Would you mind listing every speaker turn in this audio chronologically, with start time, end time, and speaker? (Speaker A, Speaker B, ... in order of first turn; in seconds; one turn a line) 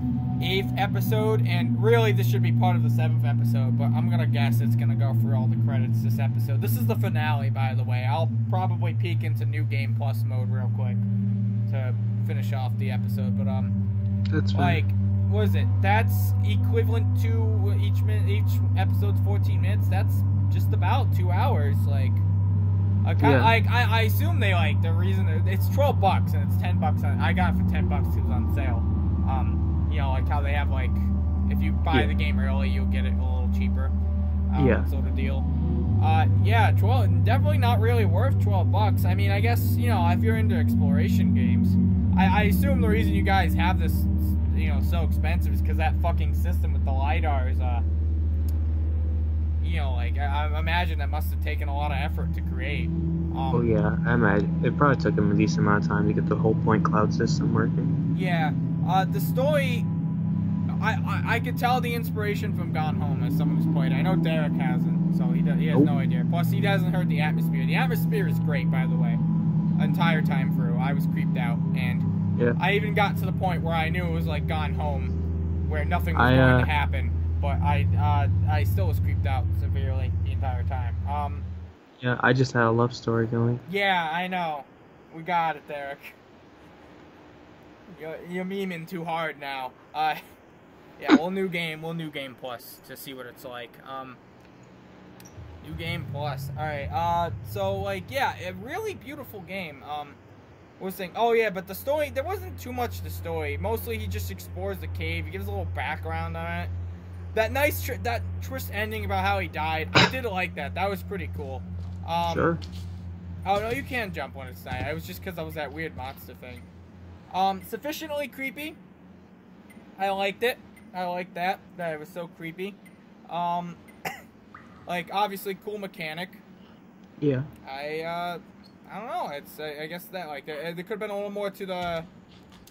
Speaker A: 0.4-11.0
Speaker A: 11.7-13.8
Speaker B: 14.3-14.8
Speaker A: 14.5-22.2
Speaker A: 23.1-34.0
Speaker B: 23.2-23.5
Speaker A: 34.5-35.5
Speaker B: 34.6-34.9
Speaker A: 36.0-47.9
Speaker A: 49.6-53.7
Speaker B: 53.5-58.0
Speaker A: 58.1-59.9
Speaker A: 60.8-69.2
Speaker A: 69.8-72.1
Speaker A: 72.6-75.1
Speaker A: 75.7-81.5
Speaker B: 76.2-76.7
Speaker B: 82.0-83.6
Speaker A: 83.7-86.2
Speaker A: 87.9-90.2
Speaker A: 91.0-94.2
Speaker A: 95.6-100.2
Speaker A: 100.8-106.7
Speaker A: 107.3-112.5
Speaker B: 112.3-112.6
Speaker A: 113.5-116.7
Speaker A: 117.3-118.8
Speaker A: 120.0-123.8
Speaker A: 124.9-126.4
Speaker B: 127.2-127.5
Speaker A: 127.6-132.1